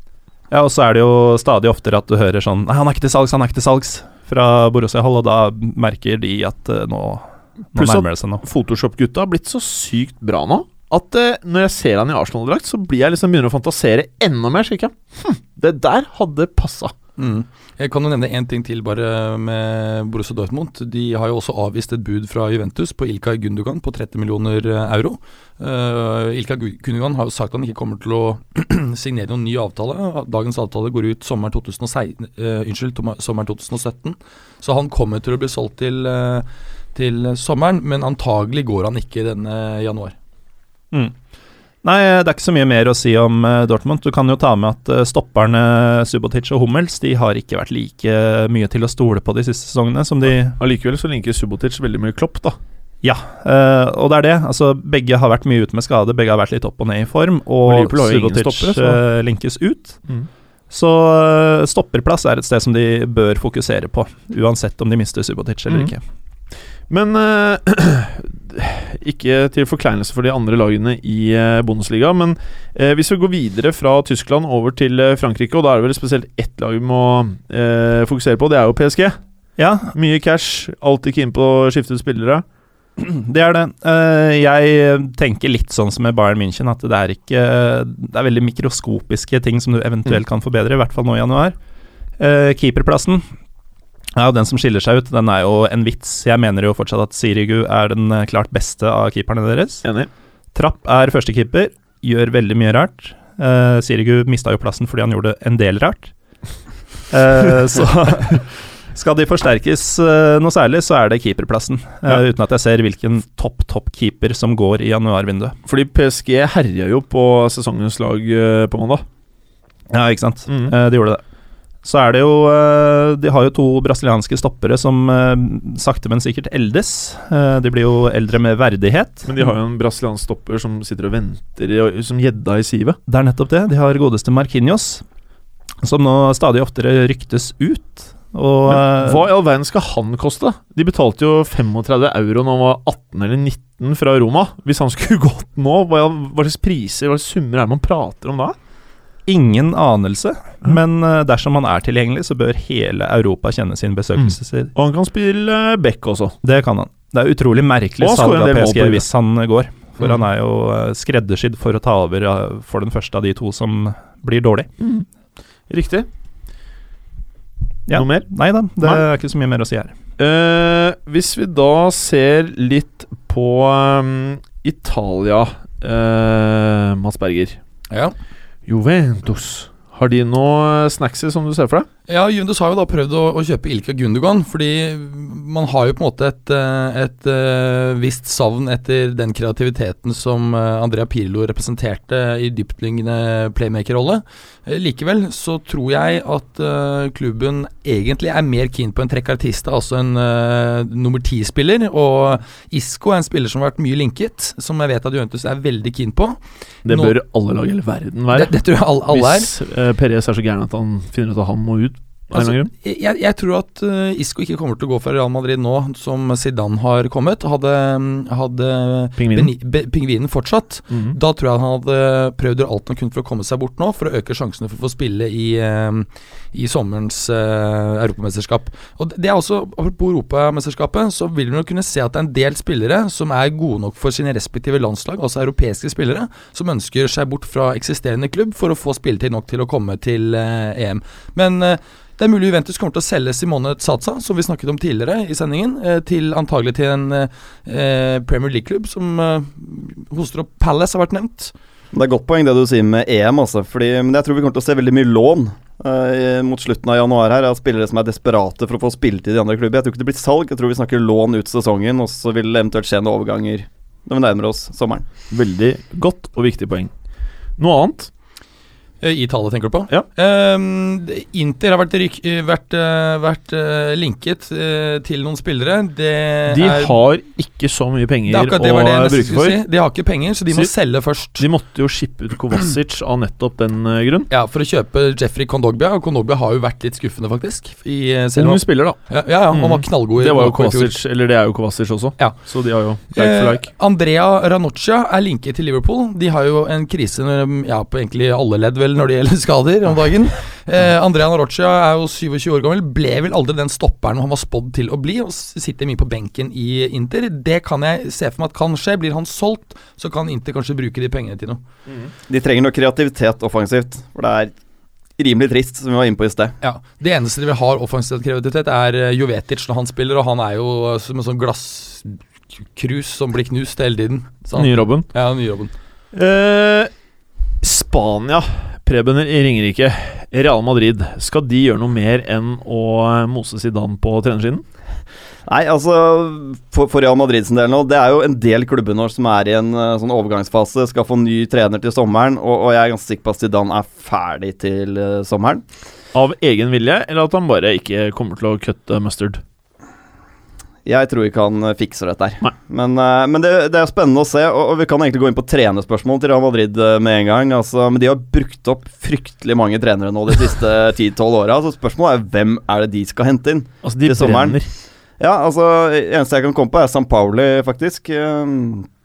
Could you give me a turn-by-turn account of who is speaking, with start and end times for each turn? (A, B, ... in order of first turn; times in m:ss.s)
0:00.5-0:08.4 A
0:07.8-0:16.9 B
0:17.2-0:40.2 C
0:41.8-0:50.6 A
0:50.6-0:52.6 B
0:53.0-1:00.0 A
0:57.6-0:59.0 B
1:00.7-1:06.0 A
1:06.9-1:19.2 B
1:19.6-1:19.9 A
1:19.9-1:22.4 B
1:23.0-1:31.6 A
1:32.2-1:33.2 A
1:34.2-1:39.8 A
1:40.5-1:46.1 A
1:47.1-1:55.5 A
1:55.7-1:59.0 B
1:59.9-2:01.2 A
2:00.5-2:00.7 B
2:01.8-2:09.3 A
2:09.2-2:13.0 B
2:13.1-2:15.0 A
2:15.8-2:19.2 A
2:18.7-2:28.6 B
2:29.3-2:34.7 A
2:34.2-2:36.4 B
2:36.4-2:44.7 A
2:38.0-2:39.0 B
2:44.8-2:45.0 B
2:45.7-2:46.1 B
2:47.9-2:49.9 A
2:47.9-2:49.0 B
2:50.2-2:57.6 B
2:58.7-3:01.9 B
3:02.1-3:27.2 C
3:26.8-3:32.7 B
3:28.3-3:29.5 C
3:32.3-4:11.5 C
3:39.2-3:39.5 B
3:40.9-3:41.2 B
4:11.9-4:25.0 D
4:25.3-4:26.9 B
4:27.6-4:28.1 B
4:29.0-4:36.9 C
4:36.5-4:39.6 B
4:38.3-4:41.5 C
4:41.4-4:44.3 B
4:44.3-4:51.0 C
4:48.4-4:49.0 B
4:49.5-4:53.7 B
4:53.1-5:11.6 C
5:12.3-5:14.5 D
5:15.2-5:16.5 D
5:16.6-5:25.7 C
5:24.6-5:25.1 B
5:26.1-5:26.9 B
5:27.6-5:34.6 B
5:35.4-5:45.6 D
5:46.1-5:49.4 B
5:50.8-6:04.6 D
6:03.8-6:04.7 B
6:05.2-6:08.9 D